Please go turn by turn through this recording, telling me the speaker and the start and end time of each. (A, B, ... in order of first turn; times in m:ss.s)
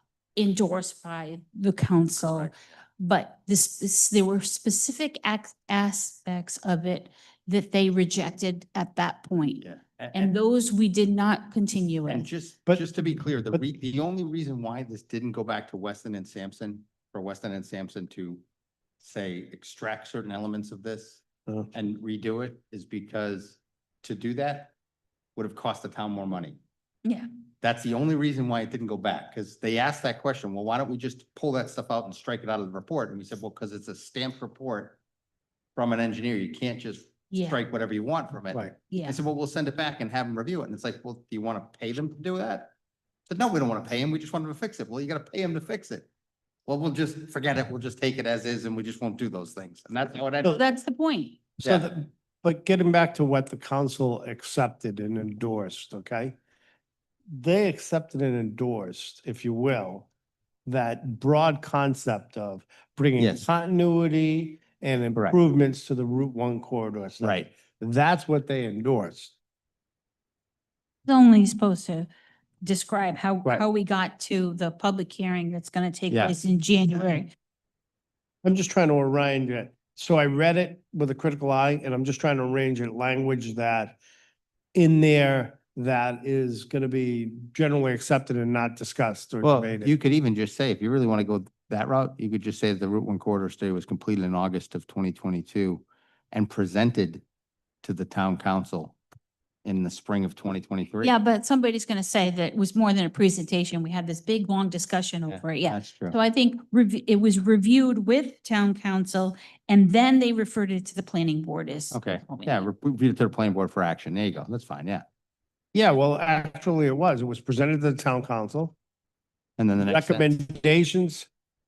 0:00.4-0:12.3 A
0:02.2-0:02.5 B
0:09.6-0:10.3 B
0:12.1-0:18.4 B
0:12.7-0:13.0 C
0:19.0-0:24.7 B
0:25.4-0:26.6 B
0:27.6-0:35.0 B
0:35.8-0:42.7 B
0:37.3-0:37.6 A
0:38.9-0:39.2 A
0:43.3-0:46.1 B
0:46.7-0:50.6 B
0:50.5-0:51.4 A
0:51.6-0:56.4 C
0:51.6-0:51.9 B
0:57.3-1:00.1 C
1:00.7-1:09.3 C
1:03.2-1:03.5 B
1:07.2-1:07.5 B
1:11.1-1:12.1 A
1:12.6-1:17.3 A
1:16.1-1:16.4 B
1:18.4-1:24.0 C
1:24.8-1:29.9 C
1:29.4-1:37.2 B
1:37.8-1:39.0 B
1:39.6-1:41.2 B
1:41.0-1:52.7 A
1:45.3-1:46.2 B
1:51.9-1:55.0 B
1:55.7-1:58.7 C
1:59.6-2:00.4 B
1:59.8-2:01.3 C